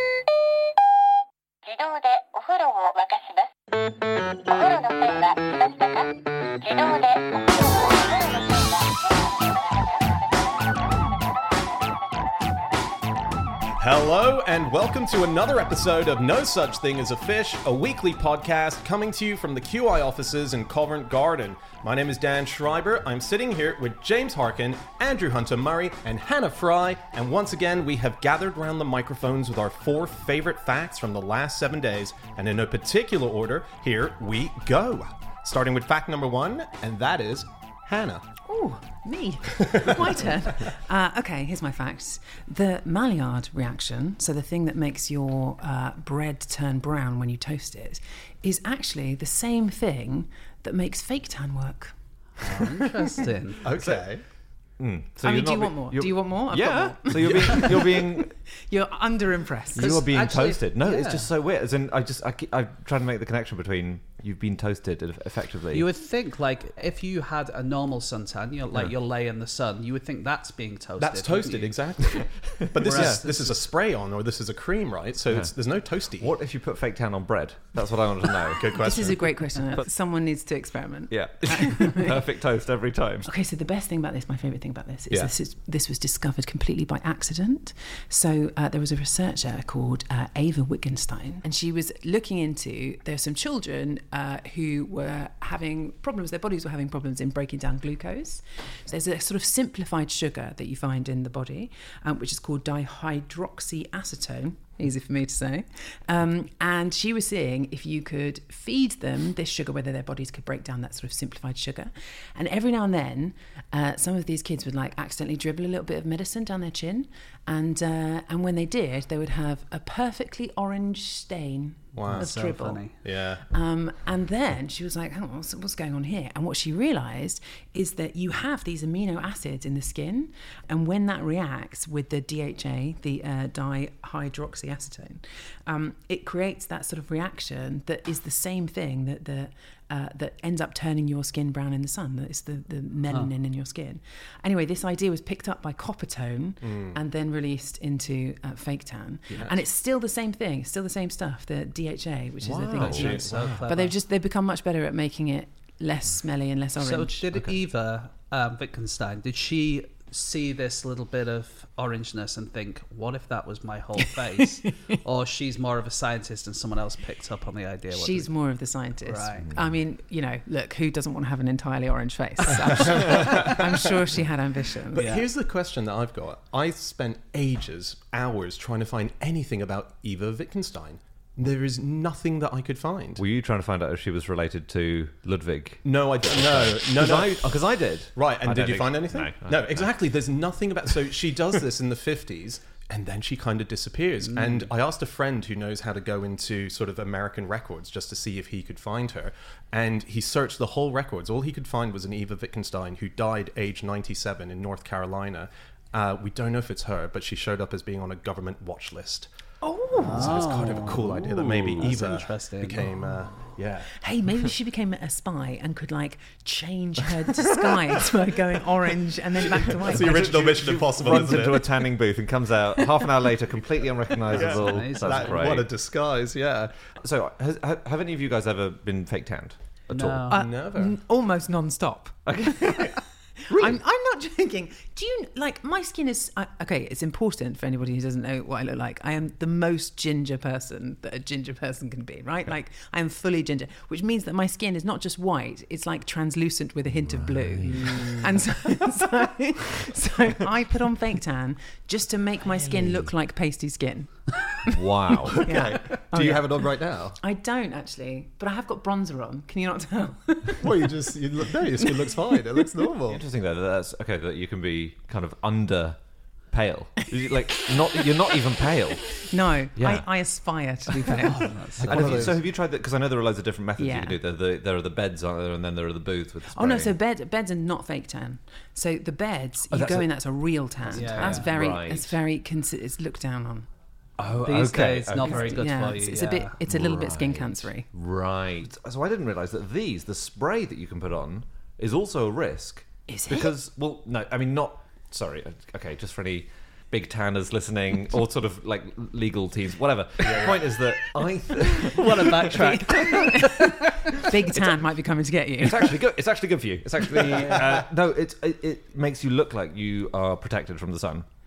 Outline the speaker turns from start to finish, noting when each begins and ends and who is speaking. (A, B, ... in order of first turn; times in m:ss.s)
0:01.6-0:03.5 A
0:04.4-0:08.0 A
0:13.8-0:38.2 B
0:38.4-0:51.9 C
0:39.7-0:39.9 B
0:52.4-0:53.6 D
0:53.6-0:54.2 B
0:53.7-0:54.1 E
0:54.8-0:58.4 E
0:55.2-1:00.0 C
0:59.7-1:05.9 E
0:59.8-1:01.3 D
1:05.7-1:11.8 D
1:11.0-1:16.3 B
1:12.2-1:13.2 E
1:12.8-1:13.7 D
1:16.2-1:19.0 E
1:18.5-1:19.5 B
1:18.7-1:22.2 C
1:21.1-1:23.3 E
1:23.2-2:02.9 C
2:01.9-2:02.3 B
2:02.0-2:03.0 D
2:03.0-2:03.4 B
2:03.5-2:37.2 C
2:26.6-2:27.0 B
2:29.3-2:29.6 B
2:32.4-2:33.6 E
2:32.8-2:33.9 D
2:36.8-2:48.3 D
2:37.3-2:37.6 E
2:47.9-2:55.1 C
2:49.0-2:49.5 D
2:52.9-2:53.7 B
2:54.9-3:03.2 B
2:54.9-2:55.3 D
3:03.2-3:10.0 E
3:05.8-3:07.5 B
3:08.1-3:29.3 B
3:14.3-3:14.7 D
3:29.6-3:30.4 C
3:30.0-3:32.9 D
3:30.0-3:33.6 B
3:30.2-3:31.9 E
3:33.5-3:33.9 E
3:33.9-3:41.3 C
3:39.7-3:41.8 B
3:39.8-3:45.7 E
3:44.2-3:46.7 B
3:44.3-3:45.5 D
3:46.9-3:50.3 E
3:49.9-3:50.4 D
3:50.3-4:16.6 C
3:50.3-3:51.0 B
3:52.2-3:53.8 E
4:06.9-4:08.2 E
4:07.6-4:08.1 D
4:14.7-4:15.5 E
4:15.3-4:17.2 B
4:17.2-4:20.9 C
4:20.6-4:23.2 B
4:23.1-4:26.0 E
4:26.5-4:30.1 E
4:29.3-4:31.5 C
4:31.2-4:32.4 D
4:31.8-4:32.3 B
4:31.8-4:36.9 E
4:33.8-4:34.2 C
4:36.5-4:43.7 C
4:39.7-4:40.1 E
4:40.8-4:42.2 E
4:40.9-4:41.5 D
4:44.2-4:45.7 E
4:44.4-4:46.5 D
4:45.2-4:47.8 C
4:46.6-5:03.2 E
4:53.1-4:53.5 C
5:00.2-5:00.6 B
5:01.7-5:03.9 D
5:02.9-5:06.0 C
5:04.5-5:04.8 E
5:05.6-5:11.2 E